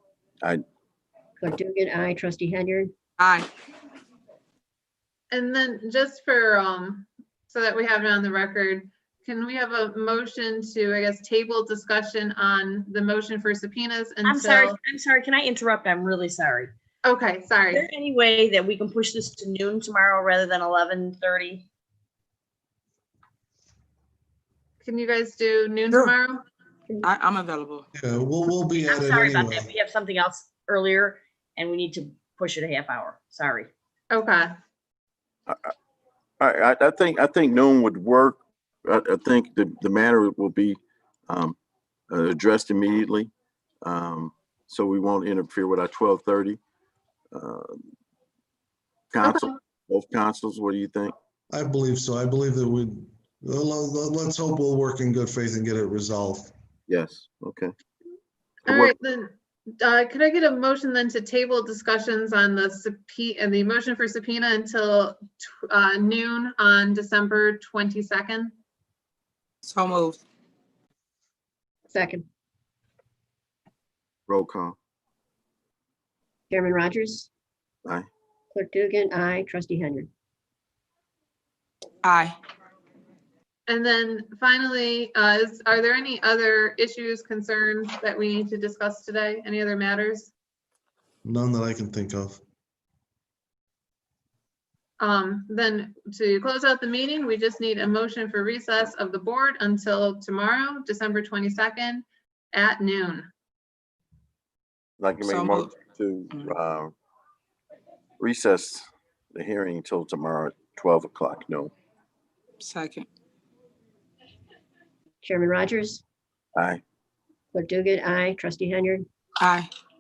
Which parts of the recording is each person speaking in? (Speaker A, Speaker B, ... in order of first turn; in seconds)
Speaker A: 1.4-2.9, 71.9-72.3, 76.5-77.3, 78.5-80.1, 115.2-116.0, 117.5-119.1
Speaker B: 3.2-3.5, 27.0-27.8, 69.6-70.2, 82.0-82.4, 105.2-105.8, 112.6-113.1, 119.4-119.7
Speaker C: 5.3-14.8, 17.0-17.9, 24.8-26.4, 34.1-34.5, 49.2-49.5, 58.7-68.5, 83.7-90.3, 95.0-103.3
Speaker D: 14.2-16.7, 17.7-21.6, 28.9-33.7
Speaker E: 27.9-29.7, 51.5-56.5, 91.2-92.4
Speaker F: 35.5-35.7, 36.4-41.6, 42.1-43.3, 43.8-46.6, 47.3-47.9, 49.1-51.1, 56.9-57.7, 58.6-59.0, 74.3-74.8, 105.0-106.9, 108.2-111.7, 116.6-116.8